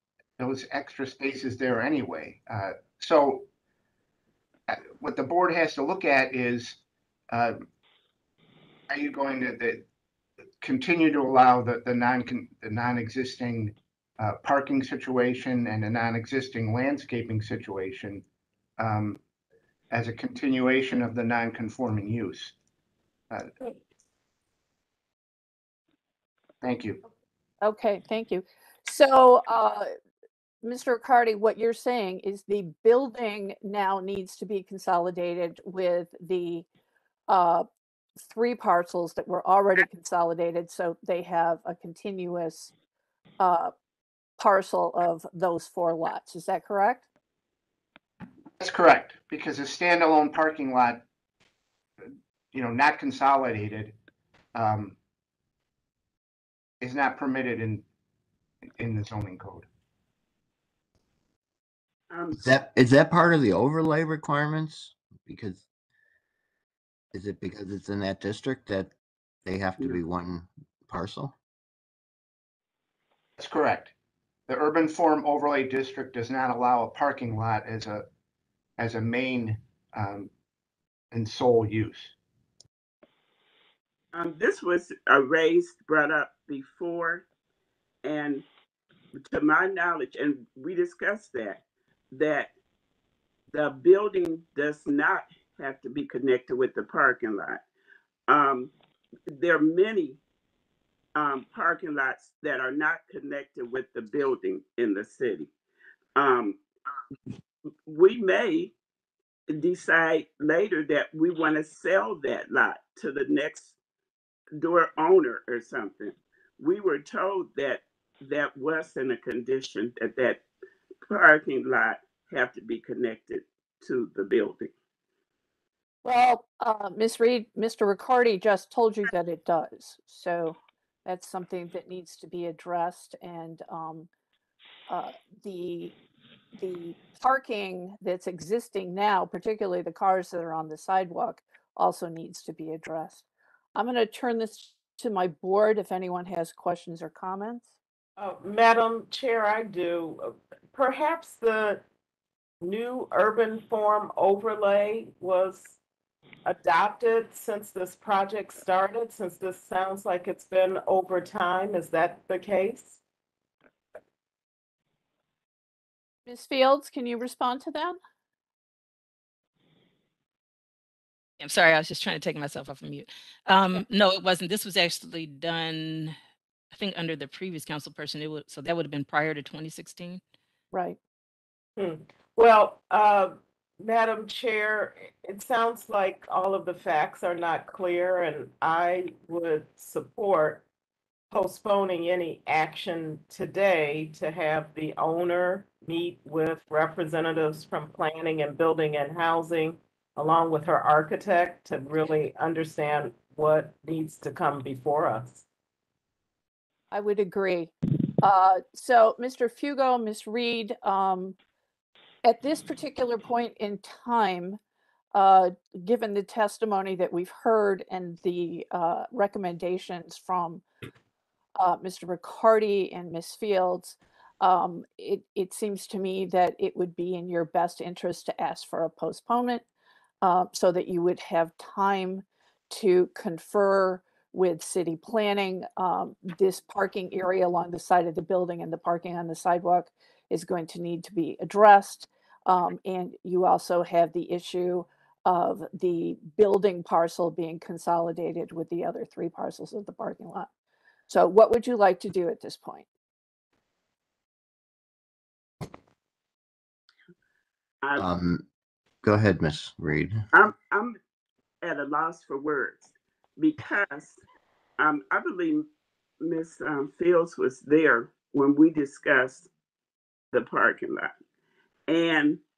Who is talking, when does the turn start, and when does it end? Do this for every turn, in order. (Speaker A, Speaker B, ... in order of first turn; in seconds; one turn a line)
Speaker A: 0.4-3.5
Speaker A: 4.7-7.6
Speaker A: 8.9-9.8
Speaker A: 10.6-18.2
Speaker A: 18.8-19.2
Speaker A: 19.9-22.5
Speaker A: 26.6-27.0
Speaker B: 27.6-29.9
Speaker B: 30.6-36.7
Speaker B: 37.3-37.7
Speaker B: 38.2-42.7
Speaker B: 43.4-43.7
Speaker B: 44.4-47.0
Speaker A: 48.6-51.0
Speaker A: 52.5-54.0
Speaker A: 54.5-55.0
Speaker A: 56.8-57.8
Speaker A: 58.8-59.7
Speaker C: 62.1-62.4
Speaker D: 62.4-65.6
Speaker D: 67.1-68.9
Speaker D: 69.5-71.3
Speaker A: 73.4-73.9
Speaker A: 74.5-78.0
Speaker A: 78.8-80.3
Speaker A: 81.1-82.2
Speaker C: 84.1-87.2
Speaker C: 88.0-88.5
Speaker C: 89.2-92.5
Speaker C: 93.5-97.6
Speaker C: 98.3-98.7
Speaker C: 99.3-100.2
Speaker C: 101.2-105.5
Speaker C: 106.2-106.6
Speaker C: 107.9-108.7
Speaker C: 109.5-113.7
Speaker C: 114.6-120.4
Speaker C: 121.1-124.7
Speaker B: 126.0-134.1
Speaker B: 134.9-135.9
Speaker B: 136.6-143.2
Speaker B: 143.8-147.7
Speaker E: 148.2-151.8
Speaker E: 152.6-155.8
Speaker E: 156.4-163.0
Speaker B: 166.3-168.0
Speaker F: 171.4-176.2
Speaker F: 176.7-180.2
Speaker B: 180.7-181.0
Speaker E: 181.8-190.6
Speaker E: 191.3-205.5
Speaker B: 206.9-211.4
Speaker B: 212.2-214.6
Speaker B: 215.1-220.6
Speaker B: 221.6-229.7
Speaker B: 230.2-250.5
Speaker B: 251.1-252.9
Speaker D: 258.0-258.4
Speaker D: 259.0-260.2
Speaker C: 260.3-261.0
Speaker C: 261.6-264.2
Speaker C: 264.8-265.7
Speaker C: 266.2-269.5
Speaker C: 270.3-271.1
Speaker C: 271.9-272.4